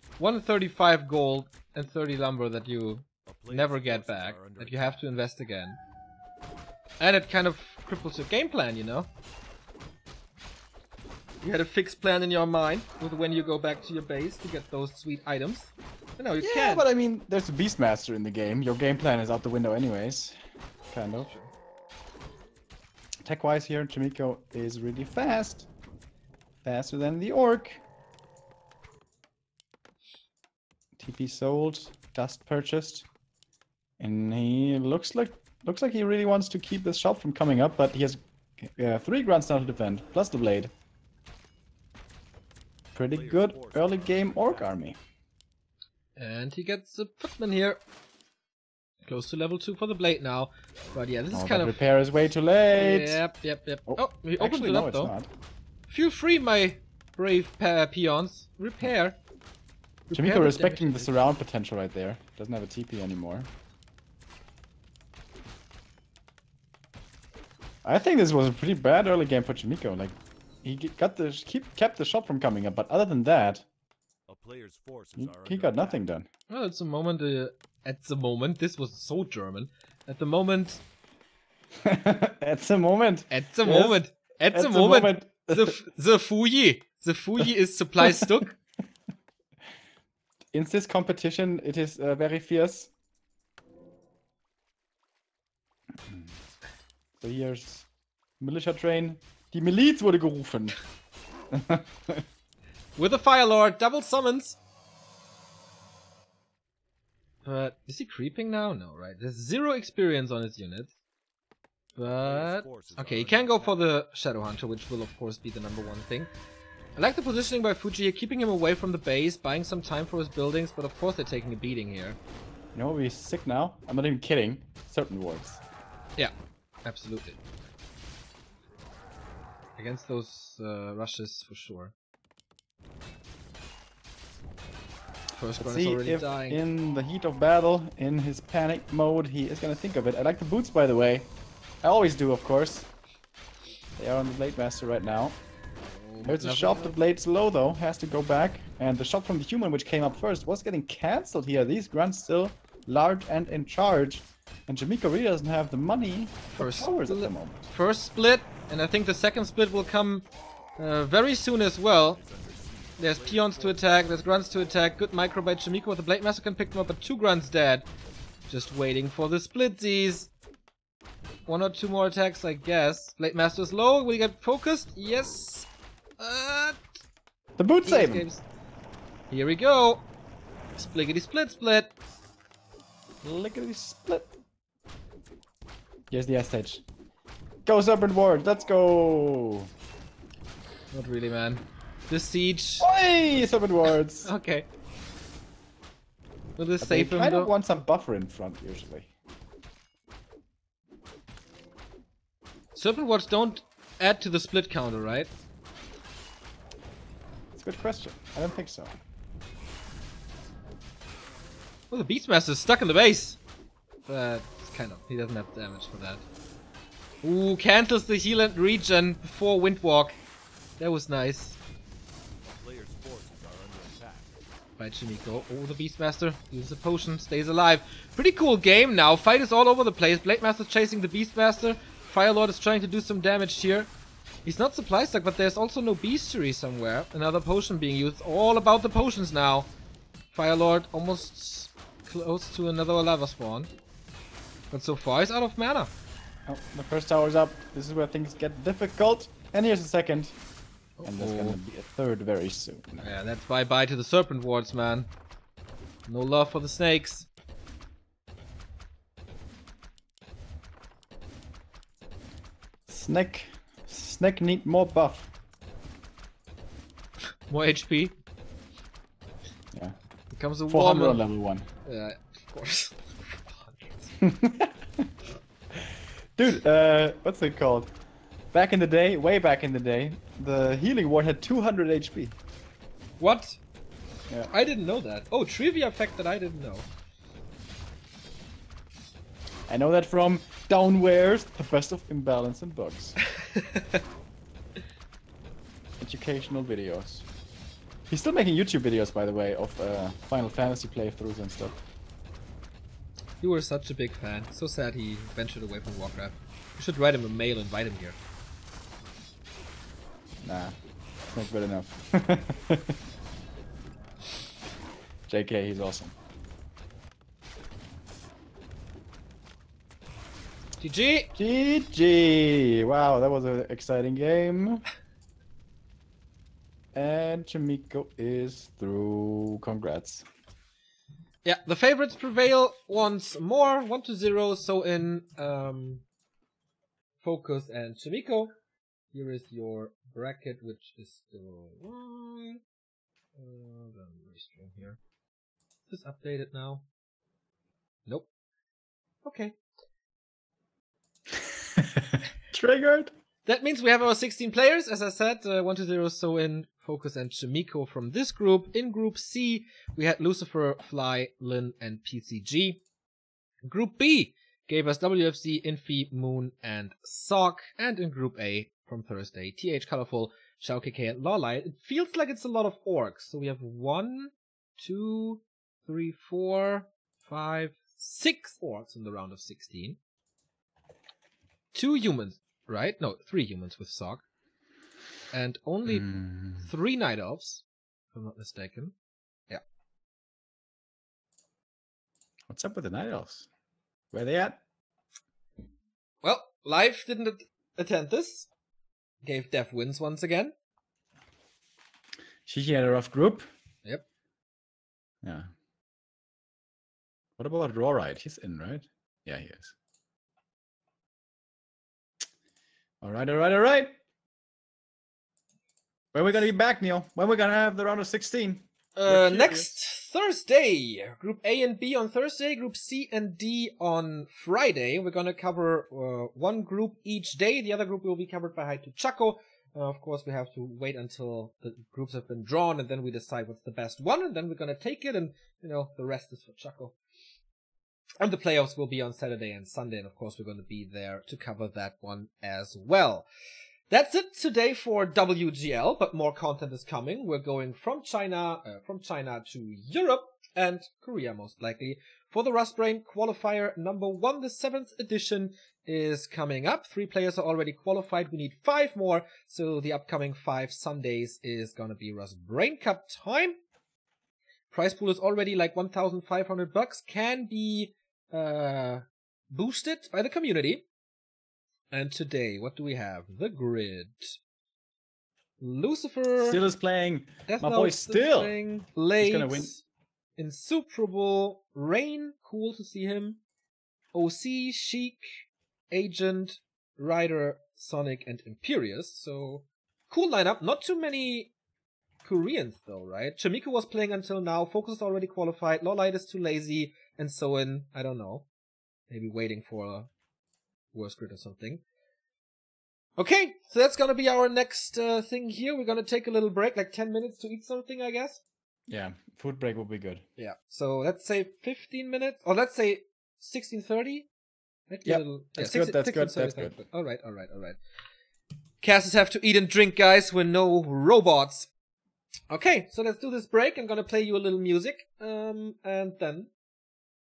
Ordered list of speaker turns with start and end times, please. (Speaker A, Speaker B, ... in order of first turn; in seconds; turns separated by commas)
Speaker A: 0.2-5.8, Speaker B: 3.3-5.1, Speaker A: 7.0-9.1, Speaker A: 11.4-16.9, Speaker C: 16.4-20.4, Speaker C: 20.9-21.3, Speaker A: 21.2-21.5, Speaker C: 23.2-25.7, Speaker C: 26.6-27.8, Speaker C: 31.0-33.1, Speaker C: 34.0-40.7, Speaker C: 43.0-45.0, Speaker B: 43.1-44.7, Speaker A: 46.2-47.8, Speaker A: 49.0-51.8, Speaker C: 51.3-53.2, Speaker A: 52.7-55.1, Speaker C: 53.9-55.3, Speaker A: 55.9-59.2, Speaker A: 60.1-61.1, Speaker C: 60.1-63.5, Speaker C: 67.8-73.7, Speaker B: 74.3-76.0, Speaker C: 75.2-76.3, Speaker A: 76.5-80.8, Speaker C: 81.8-84.0, Speaker A: 83.3-88.6, Speaker C: 84.5-85.8, Speaker C: 90.5-92.9, Speaker C: 96.1-96.4, Speaker C: 97.2-97.9, Speaker C: 98.4-100.8, Speaker C: 101.5-102.2, Speaker A: 103.0-104.6, Speaker A: 107.5-111.0, Speaker A: 112.0-116.3, Speaker B: 112.2-113.8, Speaker A: 117.0-122.2, Speaker C: 122.8-125.6, Speaker A: 126.8-127.4, Speaker A: 129.8-131.9, Speaker A: 135.4-136.6, Speaker C: 135.6-141.3, Speaker C: 141.8-142.9, Speaker C: 144.0-145.4, Speaker A: 145.8-147.0, Speaker C: 146.2-157.7, Speaker A: 156.5-160.3, Speaker A: 160.8-162.2, Speaker B: 162.1-164.4, Speaker A: 163.0-167.9, Speaker A: 168.5-170.3, Speaker A: 171.5-175.7, Speaker A: 176.2-176.9, Speaker C: 177.6-178.3, Speaker A: 177.8-178.4, Speaker A: 179.3-180.1, Speaker A: 180.8-181.9, Speaker C: 183.2-184.3, Speaker C: 186.1-186.8, Speaker C: 187.7-189.7, Speaker A: 190.9-193.5, Speaker C: 192.8-194.3, Speaker A: 194.2-194.7, Speaker A: 196.6-197.5, Speaker C: 196.8-199.1, Speaker A: 202.8-205.3, Speaker C: 207.6-208.9, Speaker A: 211.9-213.4, Speaker A: 214.1-216.2, Speaker A: 217.2-220.2, Speaker A: 220.8-221.6, Speaker B: 222.4-224.4, Speaker A: 224.8-233.9, Speaker A: 234.4-239.7, Speaker A: 240.3-243.7, Speaker A: 244.7-245.9, Speaker C: 246.5-250.4, Speaker A: 251.0-251.6, Speaker C: 251.0-253.1, Speaker A: 253.0-255.1, Speaker A: 256.1-257.3, Speaker C: 262.9-265.3, Speaker A: 267.5-268.2, Speaker A: 270.3-271.2, Speaker C: 270.7-271.7, Speaker A: 271.9-274.1, Speaker C: 274.2-275.1, Speaker C: 275.8-277.9, Speaker C: 278.5-282.4, Speaker A: 283.2-283.6, Speaker A: 284.5-286.9, Speaker C: 289.7-293.2, Speaker A: 293.4-294.0, Speaker C: 296.0-297.3, Speaker C: 298.1-301.8, Speaker A: 303.4-308.2, Speaker C: 310.4-310.8, Speaker C: 311.3-313.0, Speaker C: 315.3-316.1, Speaker A: 320.8-321.3, Speaker C: 321.4-324.9, Speaker C: 326.9-330.3, Speaker A: 331.4-336.1, Speaker A: 337.2-338.6, Speaker A: 339.1-342.6, Speaker A: 343.4-345.0, Speaker A: 345.9-346.9, Speaker A: 349.2-349.6, Speaker C: 351.8-353.1, Speaker A: 353.5-362.8, Speaker A: 363.6-380.0, Speaker A: 381.7-384.2, Speaker A: 385.3-388.9, Speaker C: 385.9-386.7, Speaker C: 392.5-393.5, Speaker C: 394.1-394.6, Speaker A: 396.2-398.5, Speaker A: 399.2-400.6, Speaker C: 402.5-403.5, Speaker C: 405.2-405.5, Speaker C: 407.4-409.8, Speaker C: 413.0-413.9, Speaker C: 416.1-419.8, Speaker A: 419.0-437.0, Speaker A: 438.2-443.3, Speaker A: 443.9-463.6, Speaker A: 464.7-470.9, Speaker A: 471.9-474.4, Speaker A: 475.6-476.6, Speaker C: 476.4-478.6, Speaker A: 477.5-479.8, Speaker C: 479.2-479.7, Speaker A: 480.4-483.4, Speaker A: 484.1-491.5, Speaker A: 492.2-498.5, Speaker A: 499.1-500.1, Speaker A: 500.9-501.8, Speaker A: 503.2-508.4, Speaker C: 508.9-510.2, Speaker A: 510.4-514.3, Speaker A: 514.9-517.8, Speaker C: 515.0-516.8, Speaker A: 518.8-521.7, Speaker A: 522.5-526.5